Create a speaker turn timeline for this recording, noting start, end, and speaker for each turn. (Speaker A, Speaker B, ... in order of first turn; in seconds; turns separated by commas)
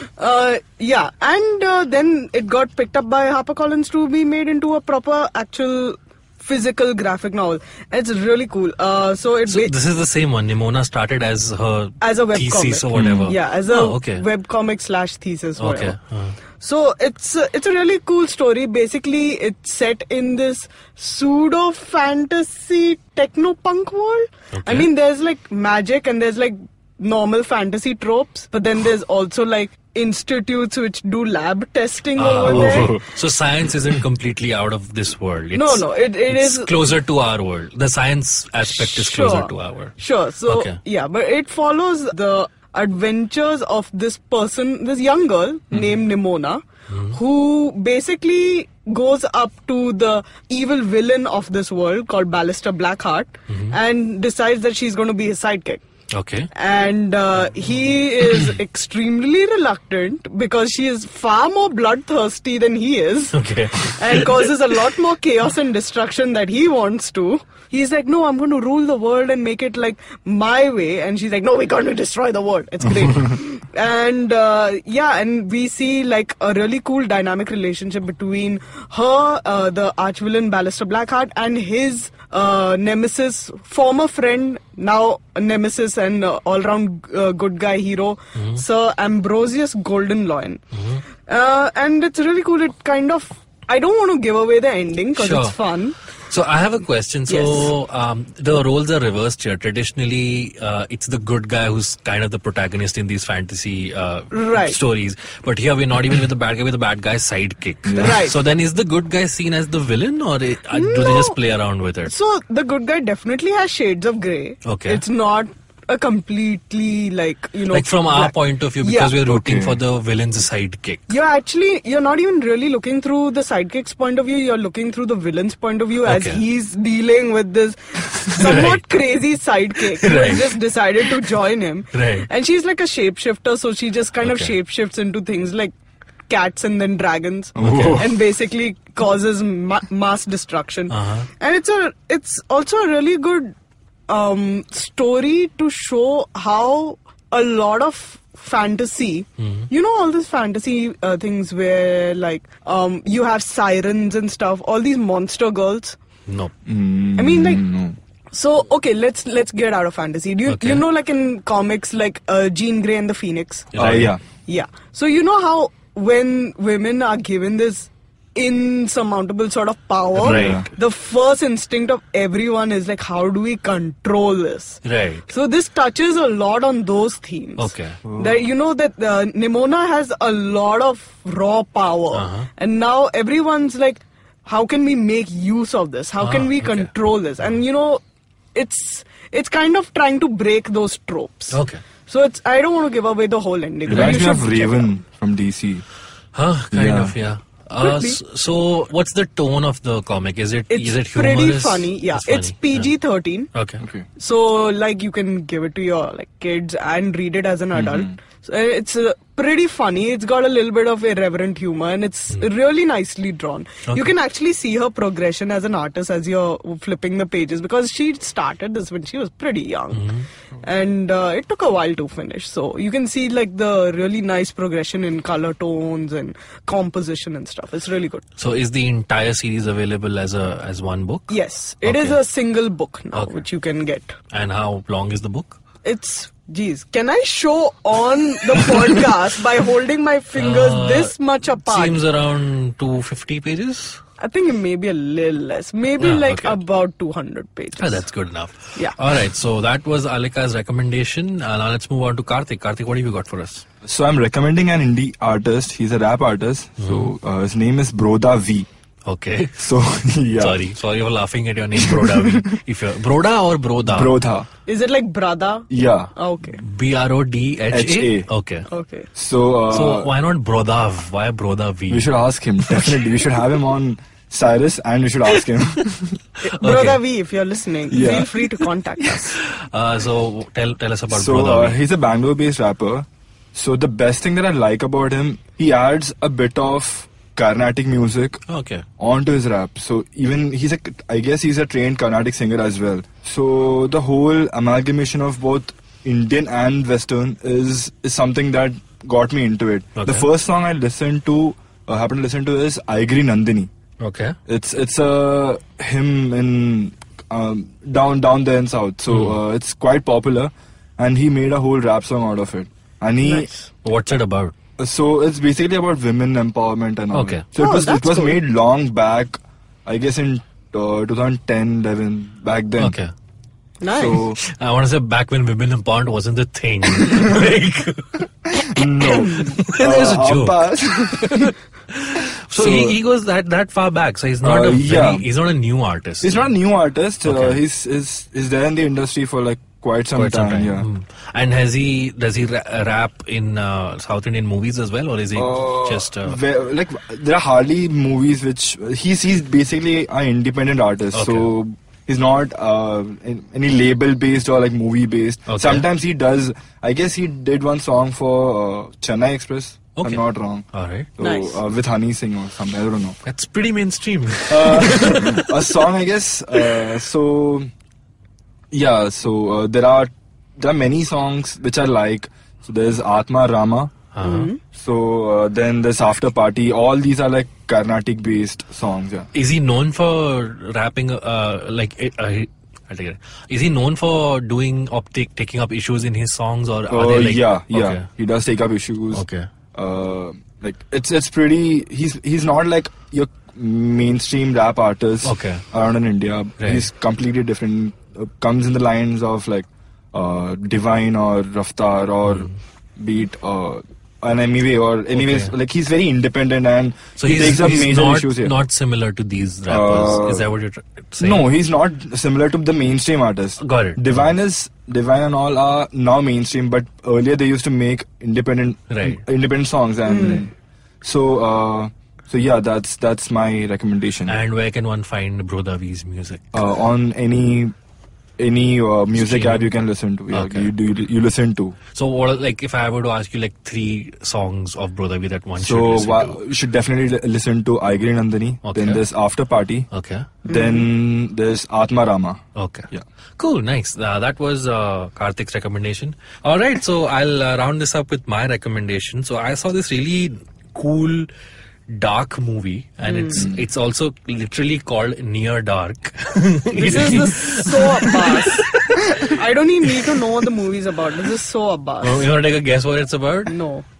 Speaker A: 0.2-9.7, Speaker B: 9.5-14.2, Speaker A: 12.0-16.0, Speaker C: 12.9-13.3, Speaker B: 15.6-16.4, Speaker A: 16.6-32.9, Speaker B: 24.6-24.9, Speaker B: 32.2-40.8, Speaker C: 32.5-33.0, Speaker A: 35.5-36.8, Speaker A: 38.6-55.8, Speaker B: 46.9-47.2, Speaker B: 53.5-53.8, Speaker B: 56.1-56.5, Speaker A: 56.5-90.6, Speaker B: 63.3-64.5, Speaker C: 73.0-73.3, Speaker B: 88.4-88.6, Speaker B: 90.7-91.0, Speaker A: 91.3-96.0, Speaker B: 95.2-95.5, Speaker B: 96.3-112.1, Speaker A: 97.3-97.7, Speaker A: 104.3-104.8, Speaker C: 107.8-108.2, Speaker A: 108.0-108.4, Speaker A: 110.7-111.4, Speaker A: 112.1-119.1, Speaker B: 114.7-115.0, Speaker B: 117.7-121.2, Speaker C: 119.3-119.8, Speaker A: 121.1-135.7, Speaker B: 126.0-126.4, Speaker B: 128.3-129.0, Speaker B: 130.0-131.0, Speaker B: 131.9-132.3, Speaker B: 134.2-134.5, Speaker A: 136.3-143.5, Speaker C: 137.6-138.2, Speaker B: 137.6-138.0, Speaker B: 140.9-141.3, Speaker A: 144.1-156.0, Speaker B: 149.4-149.7, Speaker B: 156.3-156.5, Speaker C: 156.7-158.0, Speaker A: 157.2-157.7, Speaker A: 158.3-163.7, Speaker B: 160.5-160.8, Speaker B: 163.7-164.1, Speaker C: 163.8-164.2, Speaker A: 164.5-188.0, Speaker B: 170.2-170.7, Speaker C: 170.2-170.7, Speaker B: 174.8-175.2, Speaker B: 177.6-178.0, Speaker C: 178.1-178.4, Speaker B: 182.1-182.5, Speaker B: 186.2-186.9, Speaker A: 188.6-194.9, Speaker B: 191.5-191.8, Speaker B: 193.9-194.2, Speaker C: 193.9-195.8, Speaker B: 196.3-202.9, Speaker C: 196.7-197.2, Speaker A: 197.8-198.2, Speaker A: 200.7-203.5, Speaker B: 203.5-203.8, Speaker C: 203.8-204.1, Speaker A: 204.2-220.1, Speaker C: 207.7-208.2, Speaker B: 219.9-220.3, Speaker A: 220.6-228.2, Speaker B: 228.4-232.2, Speaker A: 231.3-234.2, Speaker B: 233.1-233.4, Speaker B: 234.3-235.6, Speaker A: 235.8-242.0, Speaker B: 240.3-241.1, Speaker B: 241.7-244.0, Speaker A: 244.2-248.0, Speaker B: 246.0-246.6, Speaker B: 247.8-253.7, Speaker C: 253.8-258.7, Speaker B: 256.8-257.1, Speaker B: 259.1-259.6, Speaker C: 259.6-260.6, Speaker B: 260.4-264.2, Speaker C: 261.8-262.4, Speaker C: 263.9-264.5, Speaker A: 264.7-266.6, Speaker C: 265.7-266.1, Speaker B: 266.5-268.7, Speaker C: 267.7-268.3, Speaker A: 268.7-269.1, Speaker C: 269.2-270.1, Speaker B: 269.7-273.1, Speaker C: 271.9-276.2, Speaker A: 276.4-279.4, Speaker B: 276.5-277.0, Speaker C: 277.9-278.3, Speaker B: 279.3-281.8, Speaker C: 281.1-288.4, Speaker B: 288.5-288.9, Speaker C: 289.0-303.7, Speaker B: 300.0-300.3, Speaker B: 304.0-304.4, Speaker C: 304.5-313.5, Speaker B: 309.1-309.4, Speaker A: 313.2-313.7, Speaker B: 313.8-314.6, Speaker C: 314.8-323.0, Speaker B: 317.1-317.4, Speaker A: 317.6-318.4, Speaker B: 322.8-323.1, Speaker A: 323.8-324.2, Speaker C: 323.9-324.4, Speaker B: 324.4-336.5, Speaker C: 327.0-327.3, Speaker C: 328.5-331.5, Speaker A: 329.2-329.6, Speaker C: 332.5-333.0, Speaker C: 334.4-335.3, Speaker C: 336.2-340.9, Speaker B: 337.2-337.6, Speaker B: 340.1-346.4, Speaker C: 345.4-360.7, Speaker B: 351.1-351.5, Speaker B: 355.5-355.9, Speaker B: 360.0-361.1, Speaker C: 361.2-363.2, Speaker A: 361.2-361.6, Speaker B: 363.2-365.7, Speaker C: 364.5-367.7, Speaker C: 368.7-373.9, Speaker B: 374.1-374.5, Speaker A: 374.2-374.6, Speaker C: 374.7-379.3, Speaker B: 379.3-388.1, Speaker C: 386.9-408.6, Speaker B: 389.1-389.5, Speaker B: 395.2-395.6, Speaker B: 396.6-396.9, Speaker B: 402.2-402.6, Speaker B: 405.1-405.5, Speaker B: 407.2-411.5, Speaker C: 409.7-410.5, Speaker C: 411.2-420.5, Speaker B: 413.6-414.3, Speaker B: 418.9-419.2, Speaker A: 420.1-420.4, Speaker C: 421.0-424.4, Speaker B: 424.3-426.6, Speaker C: 426.5-427.8, Speaker C: 428.4-431.8, Speaker B: 429.2-429.7, Speaker B: 430.3-430.7, Speaker B: 431.9-436.4, Speaker C: 435.6-439.9, Speaker B: 438.6-439.0, Speaker B: 439.9-440.4, Speaker A: 440.4-440.9, Speaker C: 440.5-443.1, Speaker B: 442.6-442.9, Speaker B: 443.4-451.3, Speaker B: 451.9-459.4, Speaker A: 453.0-453.5, Speaker C: 453.4-453.7, Speaker A: 456.7-462.3, Speaker B: 459.9-460.2, Speaker B: 462.0-463.5, Speaker A: 463.5-463.9